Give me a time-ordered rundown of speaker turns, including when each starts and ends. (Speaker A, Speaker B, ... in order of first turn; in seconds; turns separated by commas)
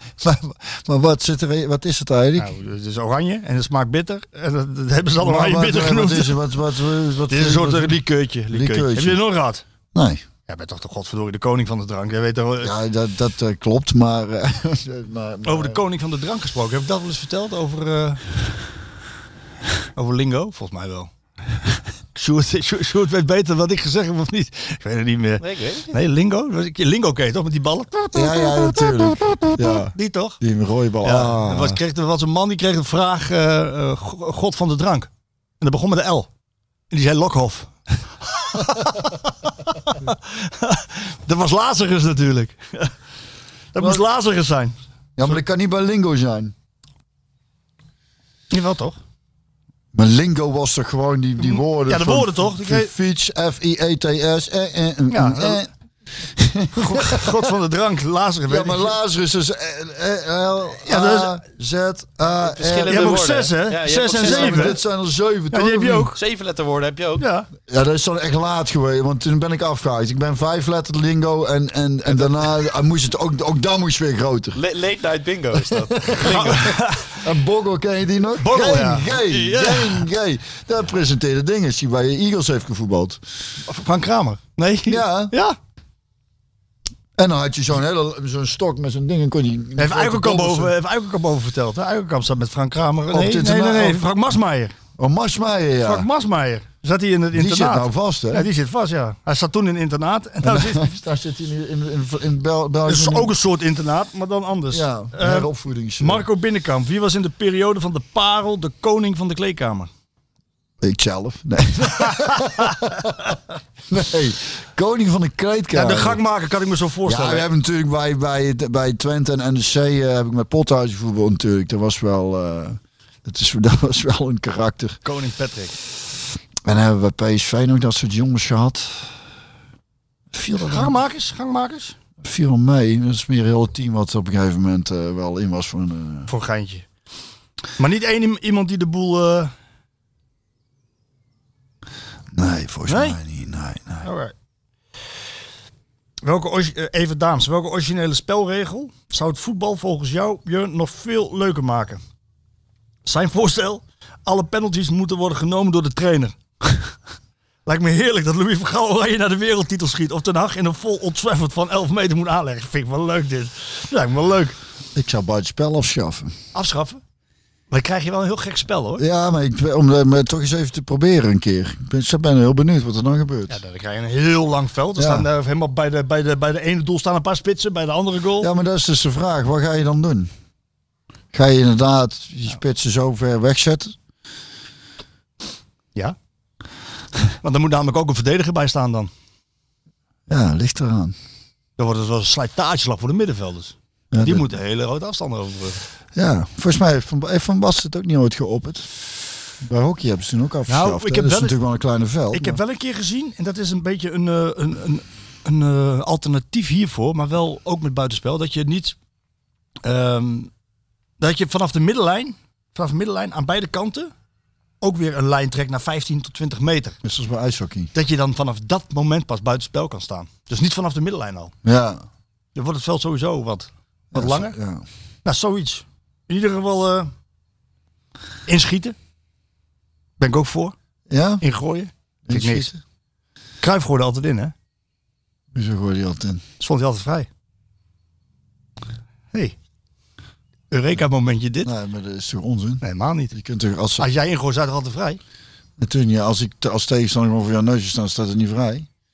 Speaker A: 0.2-2.5, Speaker B: 2.4-6.4, Speaker A: 5.2-9.2, Speaker B: 7.3-9.6, Speaker A: 9.9-10.2, Speaker B: 10.5-12.7, Speaker A: 12.6-15.8, Speaker B: 15.4-18.2, Speaker B: 19.9-21.1, Speaker B: 22.1-30.4, Speaker C: 25.4-25.9, Speaker A: 28.1-31.8, Speaker B: 31.0-35.1, Speaker B: 35.6-36.3, Speaker B: 36.9-37.7, Speaker B: 38.3-42.9, Speaker B: 43.7-44.7, Speaker A: 45.2-46.5, Speaker B: 48.5-49.0, Speaker A: 49.9-57.5, Speaker B: 51.4-52.9, Speaker B: 55.1-55.6, Speaker B: 56.7-58.9, Speaker A: 58.5-63.2, Speaker B: 60.9-61.4, Speaker C: 62.4-64.8, Speaker B: 62.9-64.8, Speaker A: 64.2-66.1, Speaker B: 65.5-66.2, Speaker C: 66.2-67.2, Speaker B: 67.2-67.5, Speaker A: 67.7-74.6, Speaker C: 74.5-76.8, Speaker A: 75.6-83.2, Speaker B: 76.2-77.2, Speaker B: 78.4-80.1, Speaker B: 83.6-85.6, Speaker A: 84.9-85.3, Speaker A: 87.2-90.7, Speaker B: 89.8-94.7, Speaker A: 93.1-94.1, Speaker A: 95.0-96.1, Speaker B: 95.8-100.9, Speaker A: 97.3-98.5, Speaker A: 100.4-103.3, Speaker B: 102.8-109.9, Speaker A: 104.7-106.3, Speaker A: 110.8-113.4, Speaker B: 112.0-112.9, Speaker A: 113.9-116.2, Speaker B: 115.7-117.5, Speaker A: 117.1-125.0, Speaker B: 125.0-125.8, Speaker A: 126.7-129.1, Speaker A: 130.3-130.9, Speaker B: 130.6-131.9, Speaker A: 132.2-136.3, Speaker B: 136.3-136.8, Speaker B: 137.8-139.5, Speaker A: 142.3-144.1, Speaker B: 142.9-143.2, Speaker B: 144.0-144.3, Speaker B: 146.2-152.0, Speaker B: 153.1-156.4, Speaker B: 157.7-164.6, Speaker A: 164.9-166.3, Speaker B: 166.5-167.0, Speaker B: 167.7-169.0, Speaker A: 169.0-173.6, Speaker B: 173.5-178.5, Speaker A: 175.0-175.3, Speaker A: 178.4-180.3, Speaker A: 181.3-183.9, Speaker B: 187.4-189.1, Speaker A: 190.3-191.1, Speaker B: 191.8-195.8, Speaker A: 194.1-194.5, Speaker A: 196.1-198.9, Speaker A: 199.6-202.6, Speaker B: 200.7-201.6, Speaker B: 202.3-208.9, Speaker B: 209.8-210.5, Speaker B: 211.2-214.1, Speaker B: 214.8-217.0, Speaker A: 217.0-217.9, Speaker B: 217.9-221.5, Speaker A: 221.6-222.0, Speaker B: 222.6-224.6, Speaker A: 224.1-224.8, Speaker B: 225.2-227.1, Speaker B: 228.5-228.9, Speaker B: 230.2-230.7, Speaker A: 231.1-231.4, Speaker B: 231.4-232.7, Speaker A: 232.3-232.8, Speaker B: 233.6-234.5, Speaker A: 235.5-236.4, Speaker B: 236.6-237.3, Speaker B: 240.7-241.7, Speaker A: 241.6-244.1, Speaker B: 242.8-243.3, Speaker B: 244.0-245.2, Speaker A: 245.8-248.9